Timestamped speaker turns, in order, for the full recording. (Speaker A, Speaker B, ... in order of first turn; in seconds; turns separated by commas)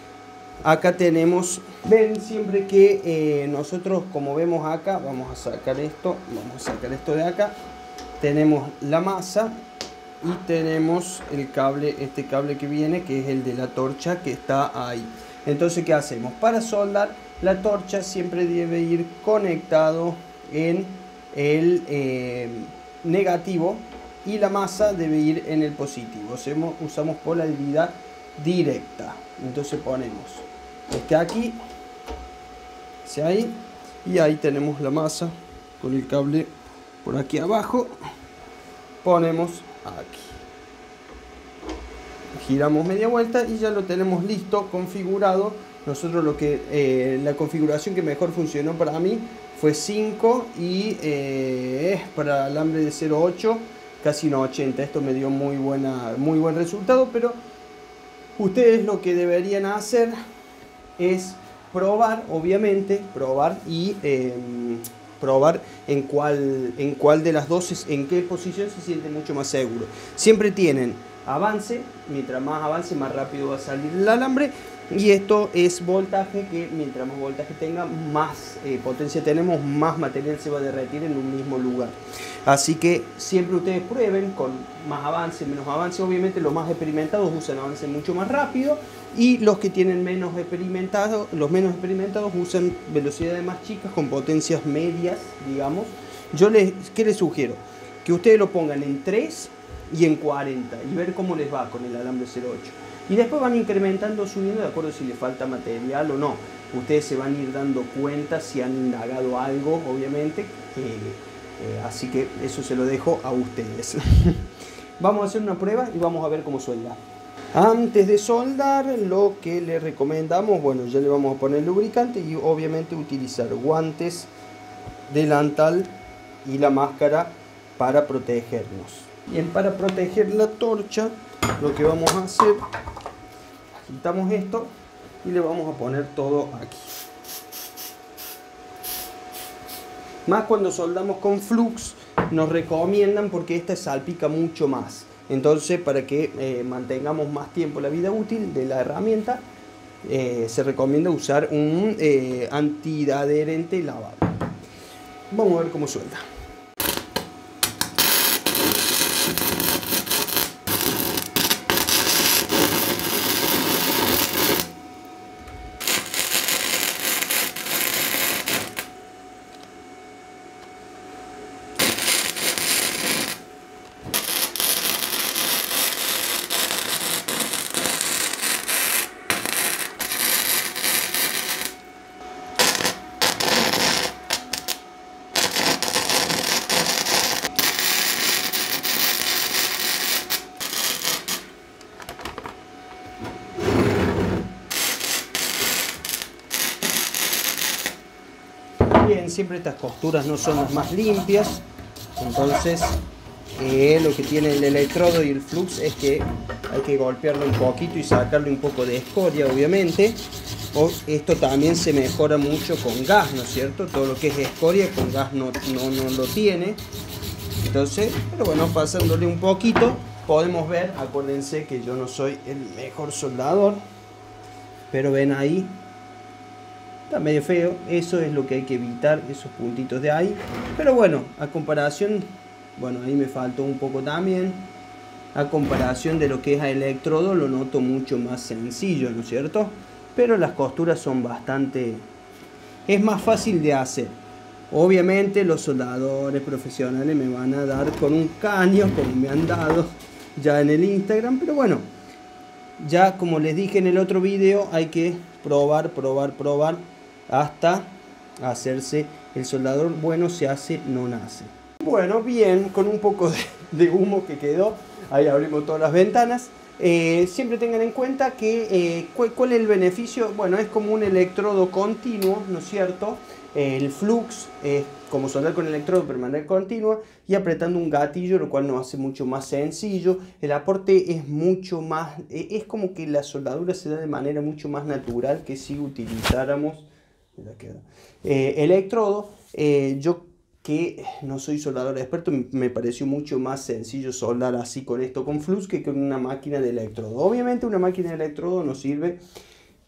Speaker A: 0.6-7.6, Speaker A: 8.2-9.6, Speaker A: 10.2-31.6, Speaker A: 33.0-38.0, Speaker A: 39.0-40.4, Speaker A: 42.4-57.4, Speaker A: 58.4-60.1, Speaker A: 61.0-114.5, Speaker A: 115.0-117.0, Speaker A: 117.5-124.3, Speaker A: 125.1-125.9, Speaker A: 126.4-132.6, Speaker A: 133.7-134.7, Speaker A: 135.2-136.9, Speaker A: 140.3-149.4, Speaker A: 150.0-154.3, Speaker A: 155.3-156.2, Speaker A: 198.9-201.6, Speaker A: 202.2-203.0, Speaker A: 203.6-216.8, Speaker A: 217.6-223.8, Speaker A: 224.9-225.8, Speaker A: 227.1-234.7, Speaker A: 235.3-242.1, Speaker A: 242.9-244.2, Speaker A: 244.7-251.9, Speaker A: 252.8-299.2